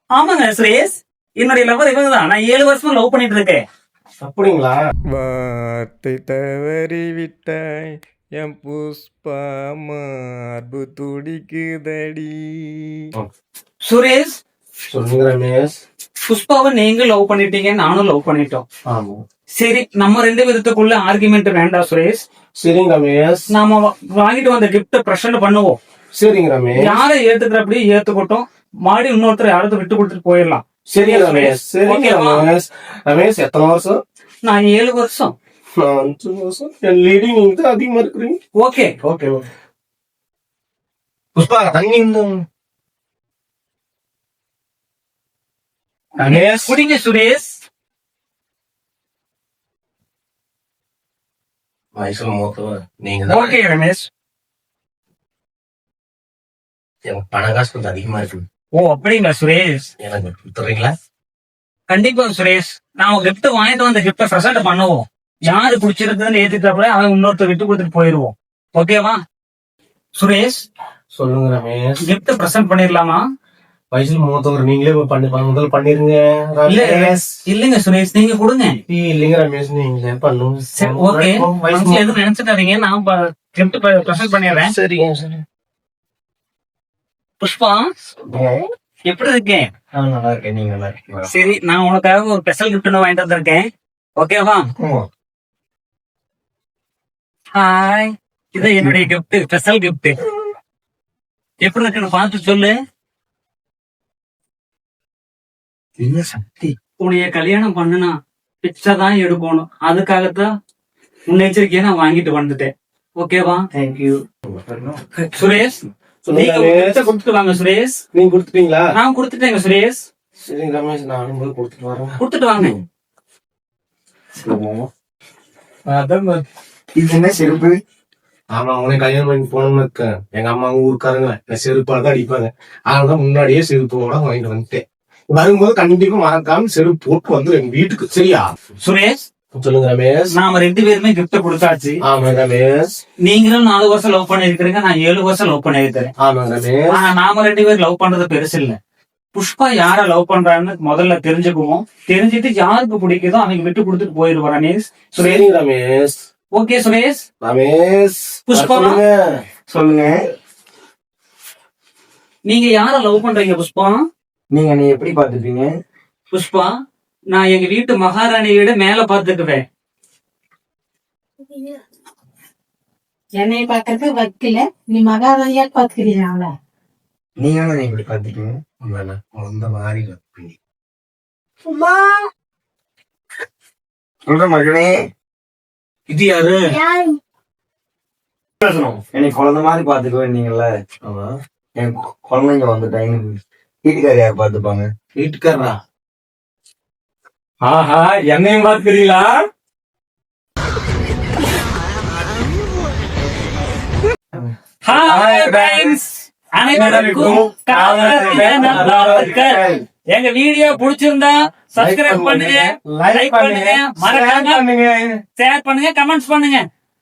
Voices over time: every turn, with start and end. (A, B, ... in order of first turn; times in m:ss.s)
0:00.2-0:03.6 A
0:04.2-0:04.8 B
0:05.1-0:13.1 C
0:13.8-0:14.4 A
0:14.9-0:15.7 B
0:16.3-0:18.6 A
0:18.9-0:19.2 B
0:19.6-0:22.2 A
0:22.6-0:23.5 B
0:23.5-0:25.8 A
0:26.1-0:27.0 B
0:26.8-0:32.4 A
0:30.9-0:34.0 B
0:34.4-0:35.4 A
0:35.8-0:38.4 B
0:38.6-0:38.9 A
0:39.0-0:39.4 B
0:41.4-0:42.4 B
0:46.2-0:47.6 A
0:46.2-0:46.8 B
0:52.0-0:53.5 B
0:53.3-0:54.1 A
0:57.1-0:58.4 B
0:58.7-0:59.9 A
1:00.0-1:00.9 B
1:01.9-1:09.2 A
1:10.2-1:10.7 A
1:11.1-1:12.0 B
1:12.0-1:13.2 A
1:13.9-1:17.3 B
1:16.7-1:18.8 A
1:18.9-1:22.2 B
1:20.8-1:24.7 A
1:24.5-1:25.4 B
1:27.4-1:27.9 A
1:28.3-1:28.6 D
1:29.0-1:29.7 A
1:29.9-1:31.3 D
1:31.3-1:34.7 A
1:34.8-1:35.1 D
1:37.5-1:40.2 A
1:41.6-1:42.8 A
1:46.0-1:46.8 D
1:47.0-1:50.5 A
1:51.3-1:53.6 A
1:53.8-1:55.1 D
1:55.3-1:58.0 A
1:56.2-1:57.0 B
1:58.1-1:58.9 B
1:58.9-2:00.0 A
2:00.4-2:02.2 B
2:02.2-2:02.8 A
2:04.4-2:04.9 D
2:05.9-2:06.3 B
2:07.0-2:07.8 D
2:08.5-2:18.5 B
2:18.8-2:19.2 A
2:19.5-2:20.3 B
2:20.3-2:22.0 A
2:22.0-2:22.9 B
2:23.2-2:26.1 A
2:26.2-2:27.1 B
2:26.9-2:28.8 A
2:29.3-2:35.5 A
2:35.2-2:36.2 B
2:36.5-2:37.2 A
2:37.4-2:39.4 B
2:38.5-2:39.0 A
2:39.7-2:40.2 D
2:42.5-2:44.0 A
2:44.5-2:45.7 D
2:46.3-2:46.7 A
2:47.3-2:49.6 A
2:53.4-2:56.6 E
2:57.4-2:58.6 D
2:58.8-3:00.6 B
3:01.8-3:02.1 D
3:04.3-3:04.9 D
3:06.1-3:06.8 B
3:08.6-3:08.9 B
3:09.1-3:10.7 D
3:11.0-3:11.3 B
3:11.8-3:14.9 D
3:15.2-3:15.8 B
3:17.6-3:19.3 B
3:24.3-3:26.1 B
3:24.8-3:26.0 A
3:26.5-3:34.6 A
3:26.6-3:29.8 B
3:31.8-3:35.2 B
3:35.4-3:36.7 A